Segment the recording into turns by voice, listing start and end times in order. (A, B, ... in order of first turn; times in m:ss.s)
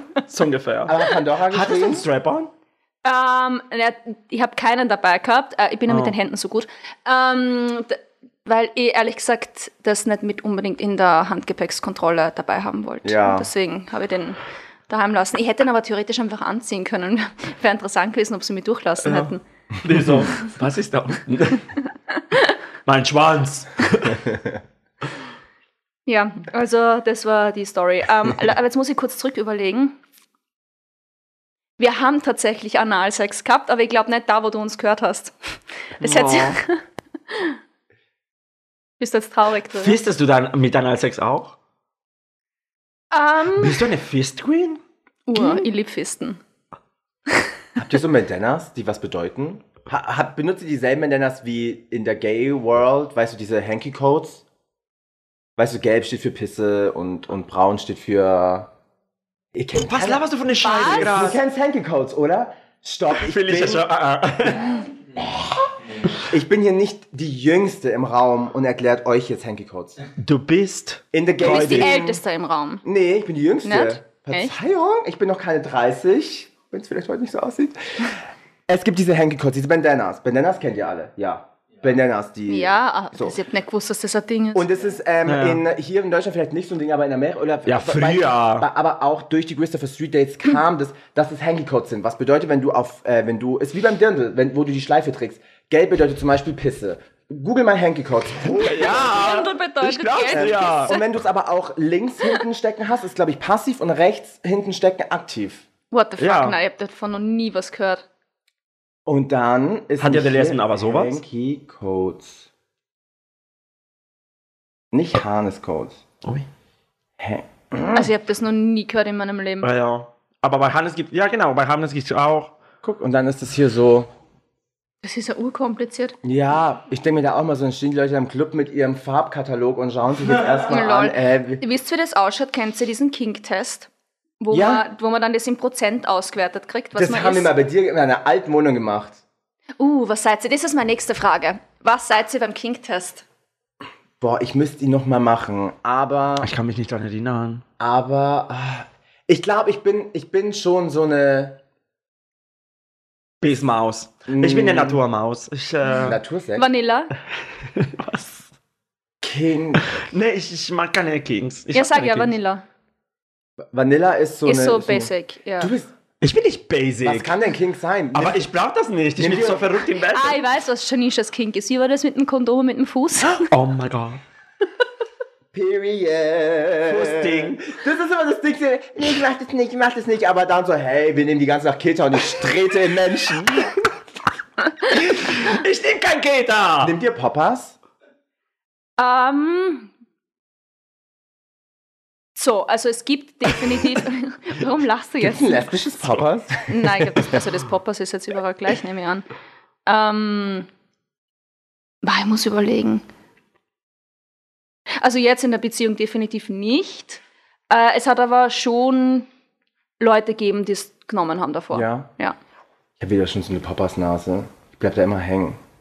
0:00.2-0:02.5 A
0:00.8-0:02.0 B
0:03.0-0:19.4 C
0:05.9-0:06.1 A
0:13.0-0:13.5 B
0:19.8-0:21.7 A
0:22.8-0:24.4 A
0:26.0-0:30.0 C
0:31.8-0:35.3 C
0:36.0-0:37.6 C
0:36.0-0:36.6 A
0:39.0-0:40.0 C
0:39.7-0:41.6 A
0:43.1-0:43.9 C
0:43.5-0:44.8 A
0:45.3-0:46.4 C
0:47.8-0:54.4 B
0:55.6-0:58.7 B
0:59.5-1:00.2 B
0:59.8-1:01.4 A
1:00.6-1:01.1 C
1:00.8-1:03.9 B
1:03.2-1:04.8 A
1:06.1-1:10.0 B
1:10.2-1:12.0 A
1:11.1-1:12.2 B
1:11.4-1:12.8 C
1:12.8-1:18.1 B
1:13.6-1:14.5 C
1:18.7-1:23.4 B
1:22.5-1:24.6 C
1:24.5-1:39.2 B
1:25.2-1:25.6 A
1:27.6-1:28.7 A
1:38.5-1:40.9 A
1:38.9-1:41.1 C
1:40.3-1:45.7 B
1:45.9-1:48.0 C
1:46.2-1:46.6 A
1:49.0-1:52.4 B
1:50.0-1:51.2 A
1:54.9-1:56.0 B
1:57.2-1:58.1 B
1:57.9-1:59.7 C
1:59.6-2:02.6 A
2:02.8-2:04.1 B
2:05.0-2:06.1 C
2:06.2-2:11.6 B
2:10.7-2:13.9 C
2:14.4-2:17.5 C
2:14.5-2:14.8 B
2:17.0-2:19.2 B
2:19.8-2:23.2 C
2:24.2-2:26.5 B
2:26.4-2:27.6 A
2:27.8-2:31.6 B
2:33.4-2:36.2 A
2:34.3-2:35.0 B
2:36.0-2:36.6 B
2:36.6-2:37.1 C
2:37.6-2:38.5 A
2:39.2-2:40.0 B
2:40.0-2:42.3 A
2:41.7-2:42.6 C
2:43.7-2:45.9 B
2:44.4-2:45.7 C
2:46.2-2:47.3 A
2:47.0-2:48.4 B
2:48.1-2:50.4 A
2:49.2-2:49.7 B
2:50.0-2:53.5 C
2:53.5-2:54.2 A
2:55.5-3:03.8 B
2:56.8-2:57.6 A
3:04.9-3:06.9 A
3:06.8-3:07.8 B
3:09.0-3:09.9 C
3:12.4-3:15.7 C
3:15.2-3:17.4 B
3:16.7-3:19.2 C
3:19.8-3:20.7 C
3:22.0-3:23.0 C
3:25.0-3:29.3 C
3:30.0-3:32.4 C
3:31.7-3:32.1 B
3:33.0-3:35.6 B